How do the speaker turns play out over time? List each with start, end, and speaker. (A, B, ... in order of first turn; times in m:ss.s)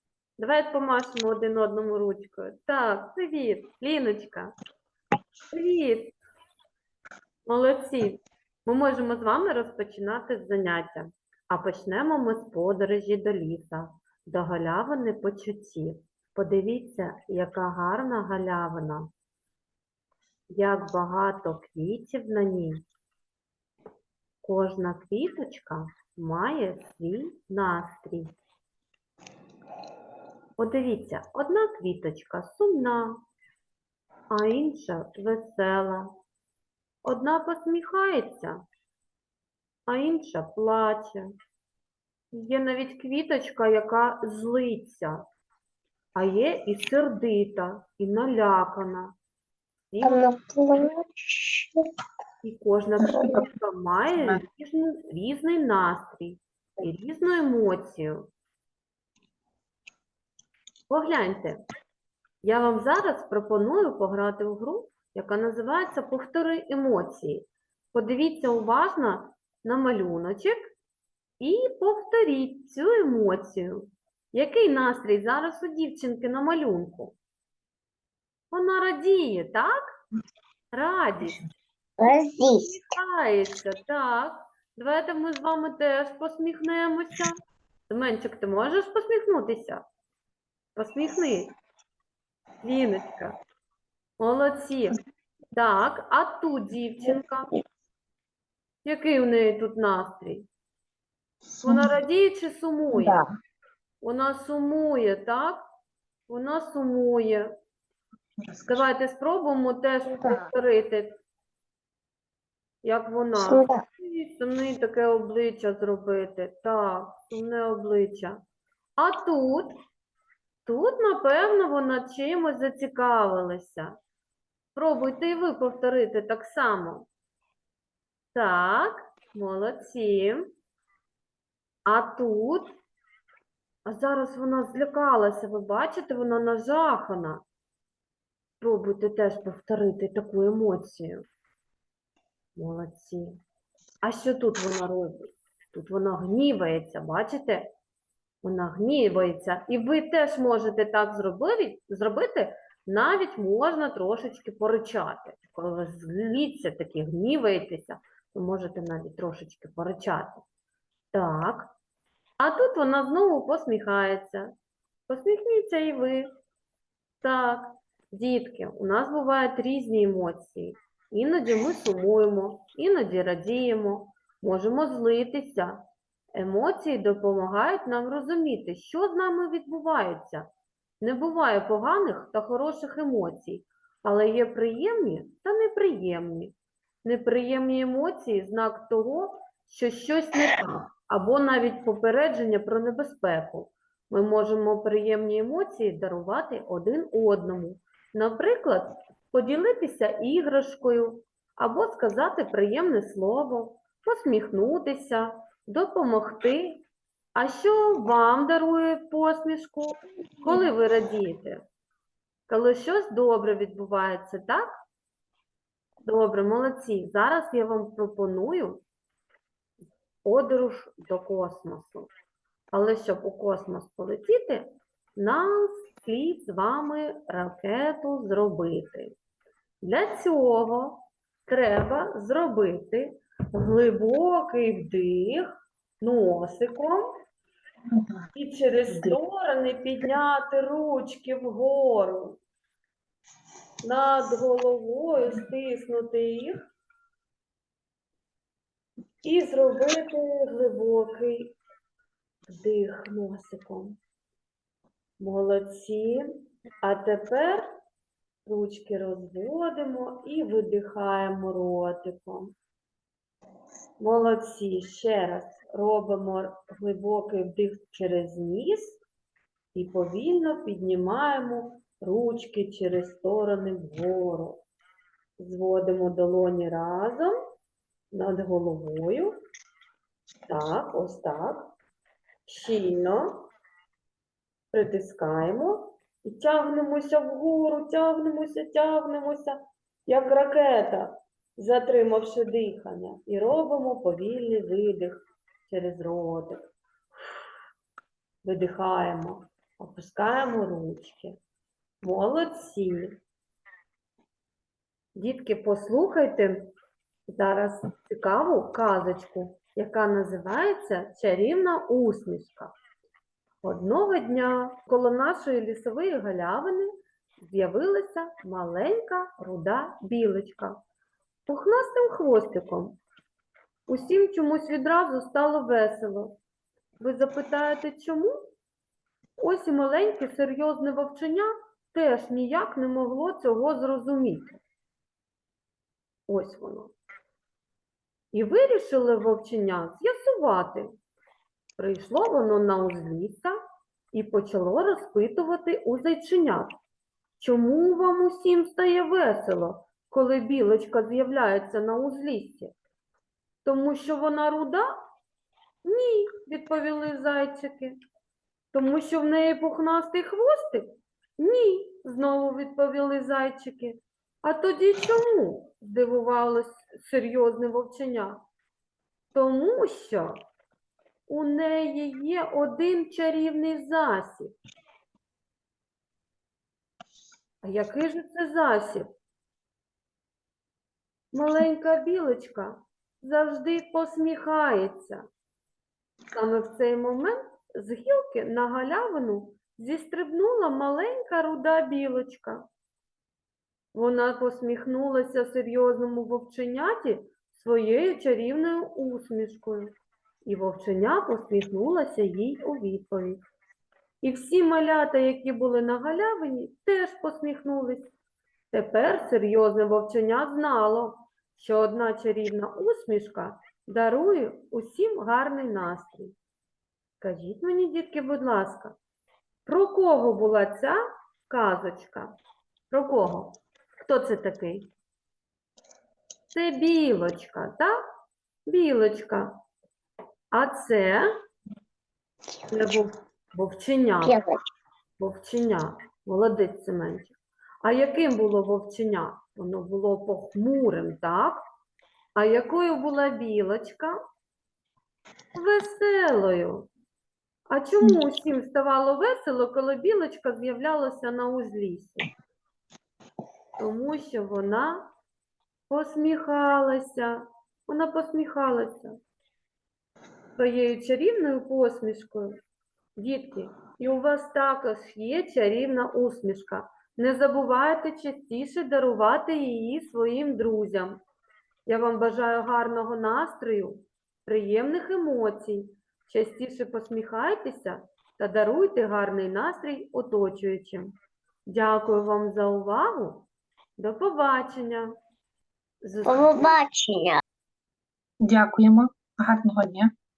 0:00.4-0:04.5 A
0:05.5-0:06.2 A
0:07.4-0:19.1 A
0:20.5-0:22.8 A
0:24.4-0:28.3 A
0:30.6-0:33.2 A
0:34.3-0:36.1 A
0:37.0-0:38.6 A
0:39.9-0:41.3 A
0:42.3-0:45.2 A
0:46.2-0:49.1 A
0:49.9-0:50.3 A
0:50.0-0:51.8 B
0:52.4-0:58.3 A
0:53.1-0:53.4 B
1:00.9-1:01.6 A
1:02.4-1:10.7 A
1:11.4-1:17.1 A
1:18.5-1:19.8 A
1:20.7-1:21.4 A
1:22.0-1:22.7 B
1:22.4-1:27.4 A
1:27.9-1:29.8 A
1:30.8-1:31.5 A
1:32.6-1:33.3 A
1:34.2-1:35.0 A
1:35.5-1:37.5 A
1:38.8-1:40.5 A
1:41.6-1:41.9 C
1:41.6-1:43.2 A
1:42.9-1:43.2 B
1:44.0-1:45.6 A
1:46.3-1:47.5 A
1:48.5-1:51.2 A
1:50.1-1:50.4 B
1:52.8-1:58.4 A
1:53.4-1:53.8 B
1:59.0-1:59.8 A
2:00.6-2:03.9 A
2:04.7-2:07.1 A
2:08.3-2:10.5 A
2:11.8-2:12.8 A
2:13.8-2:17.4 A
2:18.6-2:21.2 A
2:22.6-2:23.4 A
2:24.0-2:27.7 A
2:28.4-2:40.4 A
2:41.1-2:41.7 A
2:42.4-2:44.5 A
2:45.1-2:46.3 A
2:47.2-2:55.8 A
2:56.3-3:00.5 A
3:01.0-3:31.6 A
3:32.5-3:34.8 A
3:36.0-3:38.8 A
3:40.2-3:42.1 A
3:42.7-3:49.1 A
3:49.8-3:55.5 A
3:56.0-3:57.1 A
3:58.3-4:02.4 A
4:03.8-4:06.6 A
4:09.2-4:11.6 A
4:12.5-4:14.0 A
4:15.2-4:16.3 A
4:16.8-4:17.6 A
4:18.4-4:22.6 A
4:24.0-4:29.0 A
4:29.7-4:34.6 A
4:35.4-4:37.3 A
4:38.1-4:39.3 A
4:40.5-4:41.7 A
4:42.4-4:43.5 A
4:44.7-4:56.6 A
4:58.4-5:01.4 A
5:02.0-5:03.2 A
5:05.1-5:06.7 A
5:07.3-5:12.7 A
5:13.6-5:20.8 A
5:21.5-5:23.0 A
5:23.9-5:26.4 A
5:27.0-5:28.4 A
5:29.4-5:34.5 A
5:36.3-5:36.9 A
5:38.3-5:40.9 A
5:41.8-5:43.5 A
5:44.1-5:46.8 A
5:47.4-5:52.7 A
5:53.6-5:54.9 A
5:55.8-5:58.0 A
5:58.7-6:08.4 A
6:09.3-6:10.4 A
6:11.3-6:14.6 A
6:17.6-6:19.1 A
6:21.3-6:25.2 A
6:26.3-6:32.6 A
6:33.9-6:43.4 A
6:44.2-6:48.1 A
6:48.7-6:56.3 A
6:57.2-6:59.0 A
6:59.6-7:02.3 A
7:02.9-7:04.9 A
7:06.5-7:08.0 A
7:08.6-7:09.6 A
7:10.5-7:11.3 A
7:12.7-7:14.4 A
7:14.2-7:14.6 B
7:15.2-7:21.6 A
7:22.3-7:24.1 A
7:25.5-7:26.9 A
7:27.7-7:32.3 A
7:33.8-7:35.1 A
7:35.9-7:39.2 A
7:40.6-7:42.6 A
7:43.2-7:51.2 A
7:51.8-8:01.1 A
8:01.7-8:05.1 A
8:06.0-8:06.8 A
8:06.2-8:07.4 B
8:08.4-8:10.1 C